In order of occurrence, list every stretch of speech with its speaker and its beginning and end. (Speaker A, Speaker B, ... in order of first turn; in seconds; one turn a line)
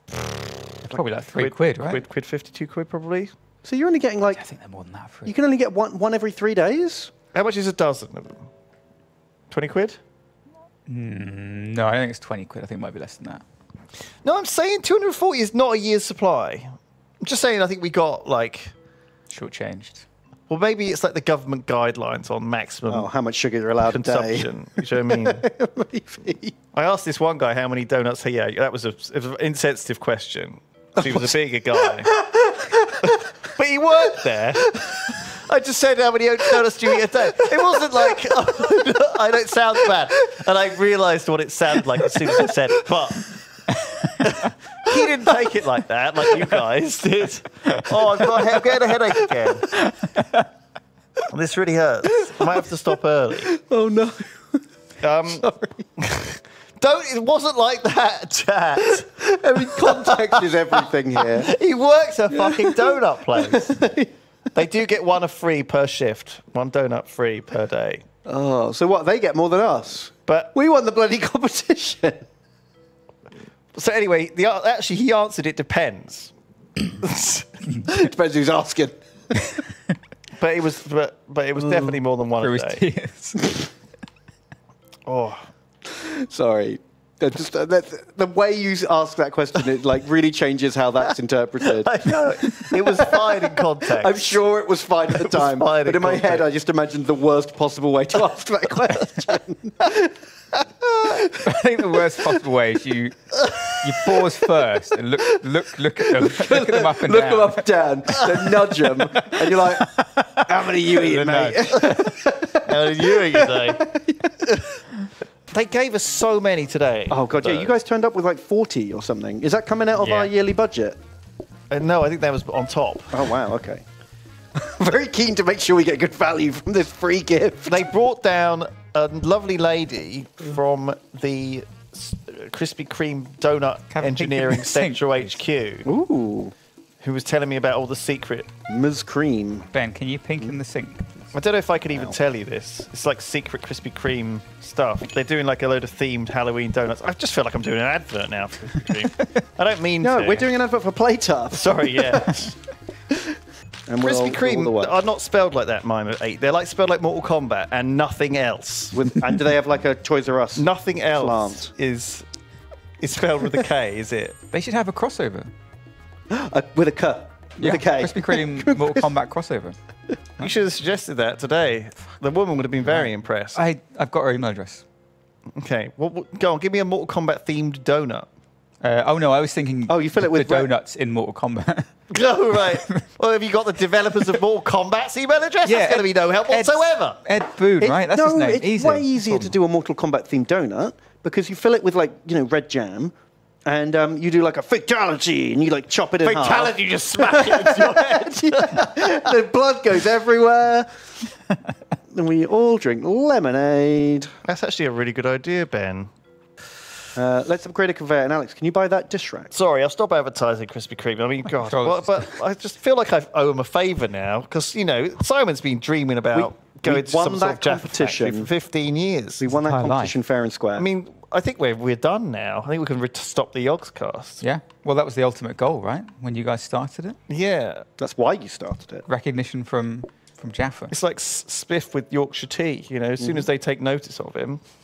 Speaker A: 0.8-3.3
Speaker B: 0.8-2.0
Speaker C: 3.6-4.4
Speaker B: 4.3-5.3
Speaker C: 5.2-7.1
Speaker A: 7.3-8.5
Speaker A: 9.5-10.0
Speaker B: 10.9-13.4
Speaker A: 14.2-18.7
Speaker B: 19.3-20.0
Speaker A: 20.5-23.1
Speaker C: 22.9-26.6
Speaker A: 23.8-25.4
Speaker A: 26.7-32.1
Speaker C: 31.0-33.3
Speaker A: 33.0-43.4
Speaker C: 34.7-35.0
Speaker C: 37.3-38.5
Speaker C: 42.0-42.5
Speaker A: 44.2-49.7
Speaker C: 48.2-49.6
Speaker A: 51.3-53.5
Speaker C: 52.2-52.6
Speaker C: 53.4-54.6
Speaker A: 55.0-55.5
Speaker C: 55.2-55.9
Speaker A: 56.0-63.8
Speaker C: 58.8-61.5
Speaker C: 62.3-64.1
Speaker A: 64.5-68.0
Speaker C: 68.2-72.2
Speaker A: 70.2-70.5
Speaker A: 73.7-76.3
Speaker A: 76.9-77.7
Speaker C: 77.8-79.6
Speaker A: 80.4-82.8
Speaker B: 82.4-83.6
Speaker A: 85.1-85.5
Speaker C: 85.8-100.1
Speaker A: 91.8-94.4
Speaker A: 95.1-96.5
Speaker B: 101.2-109.8
Speaker C: 106.0-114.5
Speaker A: 111.0-112.0
Speaker B: 111.2-111.6
Speaker A: 112.6-113.9
Speaker A: 114.5-114.7
Speaker A: 115.5-117.7
Speaker C: 117.1-121.0
Speaker B: 120.0-120.3
Speaker A: 121.7-123.3
Speaker C: 123.1-123.8
Speaker C: 124.5-127.9
Speaker A: 127.7-135.9
Speaker B: 133.9-135.4
Speaker C: 135.8-136.5
Speaker A: 137.0-138.5
Speaker C: 138.7-139.7
Speaker B: 139.7-141.1
Speaker A: 141.3-150.5
Speaker C: 150.0-152.5
Speaker A: 151.5-152.5
Speaker C: 153.9-155.0
Speaker A: 154.0-159.0
Speaker C: 158.9-161.7
Speaker A: 160.6-162.2
Speaker A: 163.0-164.4
Speaker B: 164.5-165.5
Speaker C: 166.3-169.1
Speaker B: 167.6-169.8
Speaker A: 170.4-173.6
Speaker B: 172.8-174.8
Speaker A: 175.6-178.3
Speaker B: 178.8-181.9
Speaker C: 179.9-180.7
Speaker A: 182.1-187.2
Speaker B: 182.7-183.0
Speaker B: 185.6-189.6
Speaker C: 187.8-193.1
Speaker C: 193.7-200.9
Speaker A: 196.2-199.0
Speaker C: 202.1-204.3
Speaker A: 204.4-206.1
Speaker C: 207.2-209.5
Speaker A: 209.5-219.4
Speaker B: 211.5-212.4
Speaker C: 216.3-218.5
Speaker C: 219.4-220.9
Speaker B: 219.5-220.2
Speaker A: 220.8-224.4
Speaker B: 224.4-227.2
Speaker A: 227.3-227.8
Speaker C: 228.0-229.0
Speaker B: 229.1-230.9
Speaker A: 230.9-234.6
Speaker C: 233.2-233.5